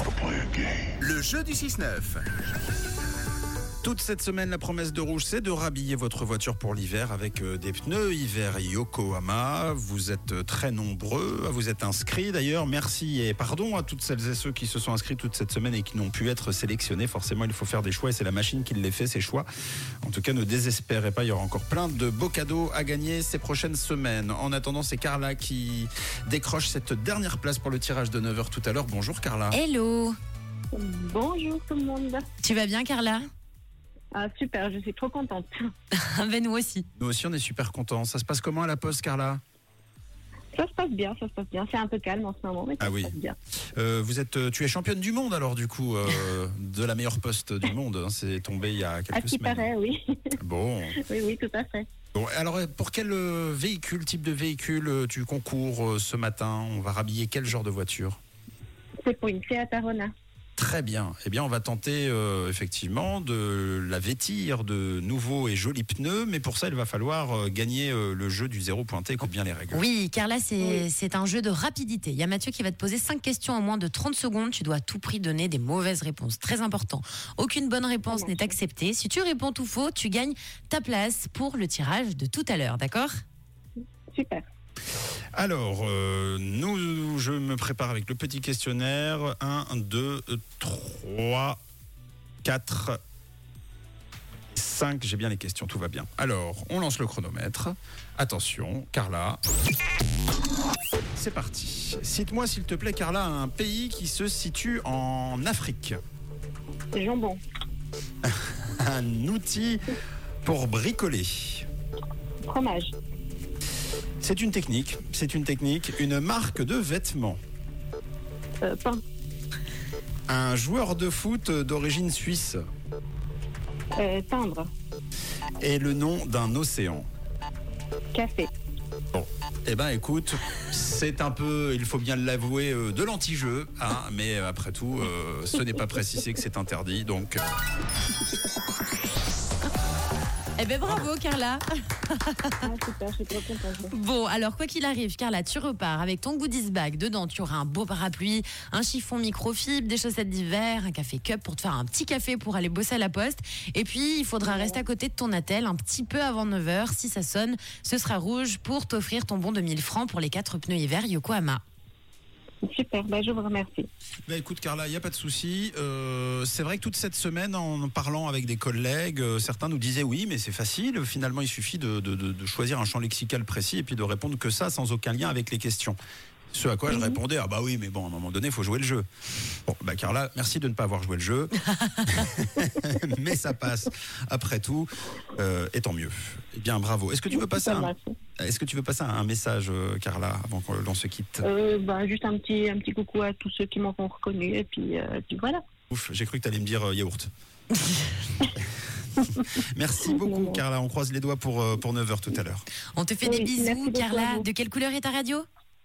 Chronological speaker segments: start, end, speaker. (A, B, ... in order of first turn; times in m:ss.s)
0:01.0-0:02.2 A
0:03.8-0:19.5 A
0:20.0-0:29.6 A
0:29.5-0:30.2 B
0:30.7-0:32.2 C
0:32.4-0:33.2 B
0:34.1-0:35.6 C
0:35.9-0:36.9 B
0:37.0-0:39.4 A
0:40.5-0:43.4 C
0:42.8-0:43.1 A
0:43.7-0:49.7 A
0:49.1-0:50.3 C
0:50.4-0:51.0 A
0:51.0-0:51.9 C
0:52.1-0:58.2 A
0:59.0-1:00.1 C
1:00.6-1:09.8 A
1:09.7-1:23.1 B
1:10.6-1:10.9 C
1:18.1-1:18.6 C
1:24.1-1:24.4 C
1:25.3-1:31.6 A
1:32.4-1:33.0 A
1:34.5-1:39.4 A
1:41.1-1:46.0 A
1:46.9-1:47.4 C
1:48.2-1:49.8 A
1:50.4-1:51.6 A
1:52.4-1:52.9 C
1:54.2-1:57.4 A
1:58.6-1:59.0 C
2:00.3-2:02.6 A
2:04.0-2:04.7 C
2:05.6-2:07.1 A
2:08.1-2:08.5 C
2:09.1-2:17.4 A
2:20.6-2:22.7 B
2:22.6-2:23.9 C
2:23.9-2:41.6 B
2:34.4-2:34.8 C
2:42.6-2:43.9 C
2:44.3-2:56.0 A
2:56.5-2:59.0 A
2:56.9-2:57.2 C
2:59.6-3:11.4 A
3:07.3-3:08.2 C
3:11.4-3:15.6 C
3:15.9-3:17.3 A
3:19.2-3:22.6 A
3:20.1-3:20.6 C
3:22.9-3:25.4 B
3:23.2-3:24.5 C